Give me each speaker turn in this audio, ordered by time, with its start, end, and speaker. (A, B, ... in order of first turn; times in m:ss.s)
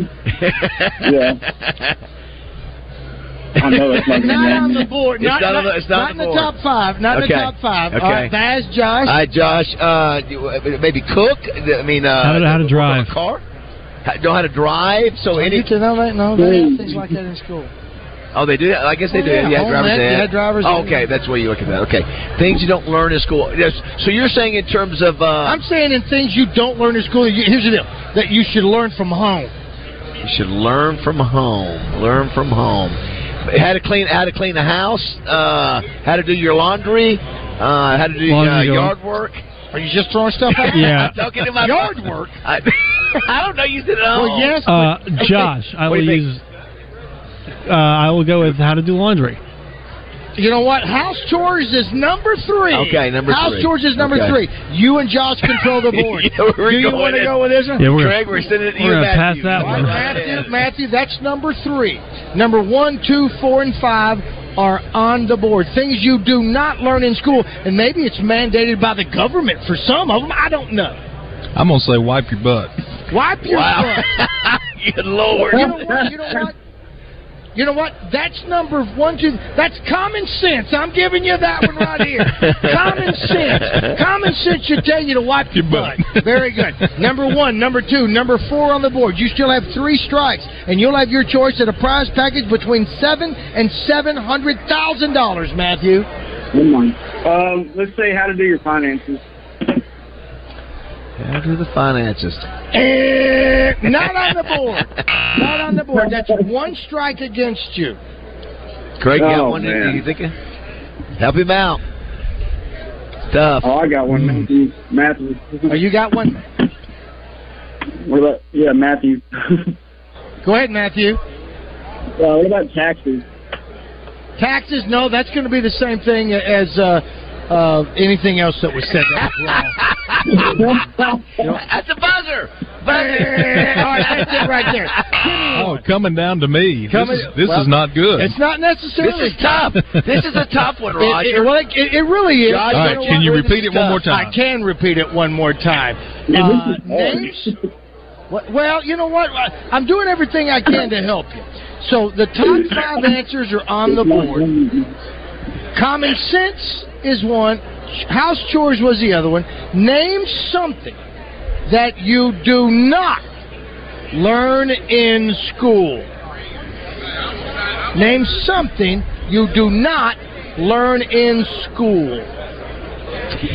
0:00.4-0:02.0 A
0:01.0-0:01.4 B
0:03.6-0:04.8 B
0:03.6-0:04.5 A
0:04.1-0:09.2 C
0:05.2-0:06.5 A
0:07.1-0:08.3 A
0:09.0-0:13.4 A
0:12.2-0:13.1 D
0:14.0-0:15.7 A
0:15.3-0:17.7 C
0:16.4-0:17.0 B
0:18.3-0:25.6 A
0:19.1-0:21.1 C
0:25.4-0:29.5 C
0:30.2-0:39.4 A
0:38.3-0:38.9 D
0:39.7-0:42.4 C
0:40.5-0:44.6 A
0:40.8-0:41.1 D
0:44.1-0:45.0 C
0:44.7-0:46.4 D
0:45.3-0:46.2 A
0:47.7-0:49.4 D
0:50.4-0:57.9 C
0:52.7-0:54.4 A
0:55.6-1:00.5 A
0:57.8-0:59.9 D
0:59.5-1:11.0 C
1:11.6-1:12.7 E
1:13.1-1:14.1 C
1:13.5-1:16.0 A
1:15.5-1:16.6 C
1:17.6-1:36.1 C
1:22.4-1:24.0 A
1:25.6-1:26.2 E
1:36.5-1:39.2 B
1:41.2-1:42.5 A
1:42.7-1:48.0 C
1:49.0-1:50.3 A
1:49.2-1:50.0 B
1:51.2-1:51.8 A
1:53.3-1:53.7 A
1:53.6-1:55.8 B
1:55.7-1:56.4 C
1:58.0-1:59.7 B
2:00.4-2:01.2 C
2:02.2-2:03.2 B
2:04.4-2:09.8 C
2:09.5-2:10.6 A
2:10.3-2:11.3 B
2:11.4-2:14.9 A
2:12.9-2:15.8 C
2:15.5-2:18.3 E
2:16.9-2:19.4 C
2:19.0-2:21.5 A
2:21.0-2:23.4 C
2:22.4-2:24.0 A
2:22.7-2:24.4 E
2:24.1-2:27.5 C
2:26.3-2:27.4 B
2:28.3-2:34.5 C
2:33.9-2:34.9 B
2:35.8-2:41.0 C
2:41.7-2:43.2 C
2:44.1-2:46.1 C
2:47.9-2:52.3 C